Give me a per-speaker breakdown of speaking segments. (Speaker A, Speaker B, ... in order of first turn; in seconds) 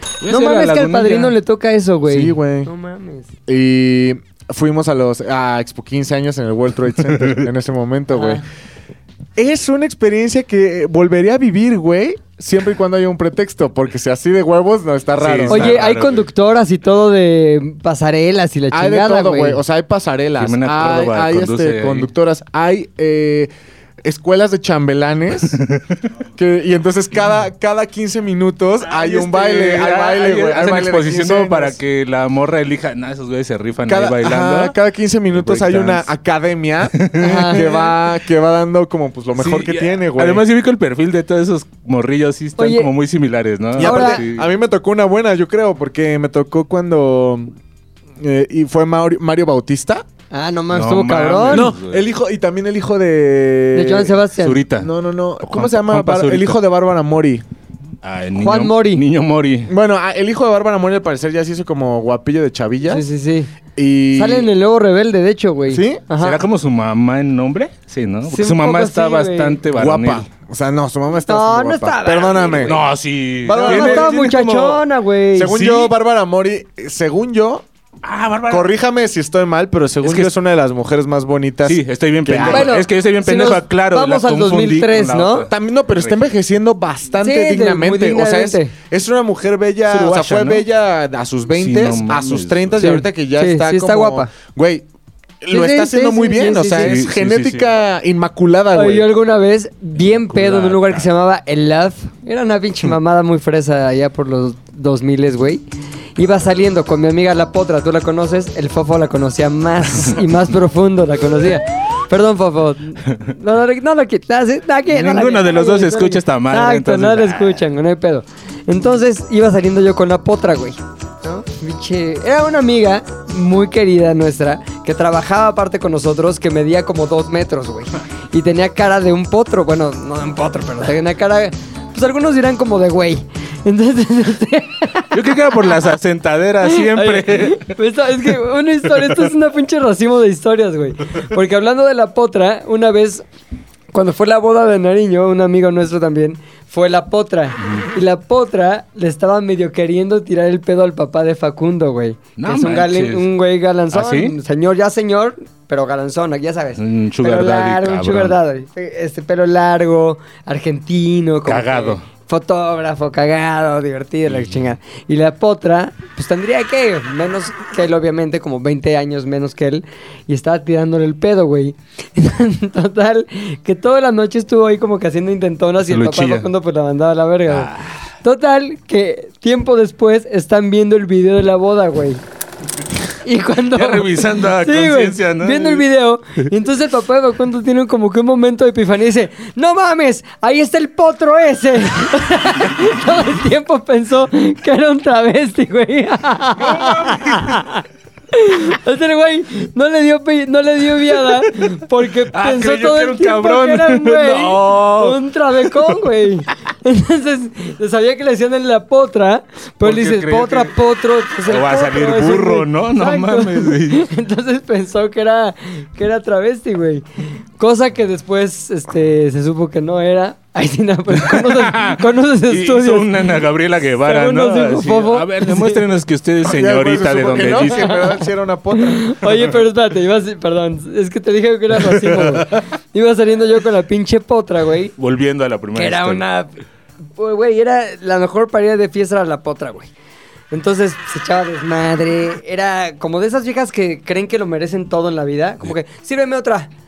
Speaker A: 0.2-1.4, 7.2-7.4, 15.1-16.3, 20.4-22.1, 25.5-25.9, 28.9-34.8, 35.3-36.1, 36.9-37.8, 39.4-44.5, 50.7-52.0, 54.4-56.6, 58.0-59.7, 66.2-70.3, 72.6-74.8, 75.5-75.9, 78.0-78.7, 80.0-80.3, 81.7-86.2, 89.9-90.7, 91.5-92.9, 96.8-97.7, 100.1-101.1, 114.9-117.7, 135.1-137.8, 138.9-139.3, 147.6-147.9, 152.4-153.3, 153.9-154.4, 156.8-158.4, 161.5-162.1, 175.9-176.5, 177.5-178.0, 183.7-185.8, 196.6-197.6, 201.1-206.0, 209.8-210.8, 211.4-214.1, 221.3-227.9, 231.9-232.6, 235.0-236.2
Speaker B: 0.2-3.3, 8.1-8.4, 15.5-19.6, 37.2-37.8, 42.6-42.9, 43.8-44.2, 50.3-51.7, 53.7-54.6, 58.4-59.0, 62.9-63.5, 64.1-66.4, 68.3-69.6, 71.3-72.8, 73.6-75.6, 82.4-85.5, 87.2-88.7, 92.8-94.3, 95.5-97.0, 98.7-105.7, 106.2-135.5, 136.6-143.2, 143.9-177.7, 178.2-182.2, 183.2-217.1, 217.6-223.4, 224.0-225.9, 227.6-228.2, 228.8-234.9, 235.8-236.6, 237.2-239.9, 240.5-246.7
Speaker C: 2.1-2.7, 3.5-8.4, 9.4-15.8, 18.7-23.5, 24.0-25.6, 26.4-31.8, 33.9-40.5, 43.8-47.5, 48.2-50.0, 51.5-54.2, 54.7-57.5, 59.7-63.0, 63.8-64.5, 65.7-66.0, 69.7-72.8, 73.4-74.8, 75.3-77.7, 78.5-82.7, 85.5-94.9, 95.4-99.1, 226.4-229.5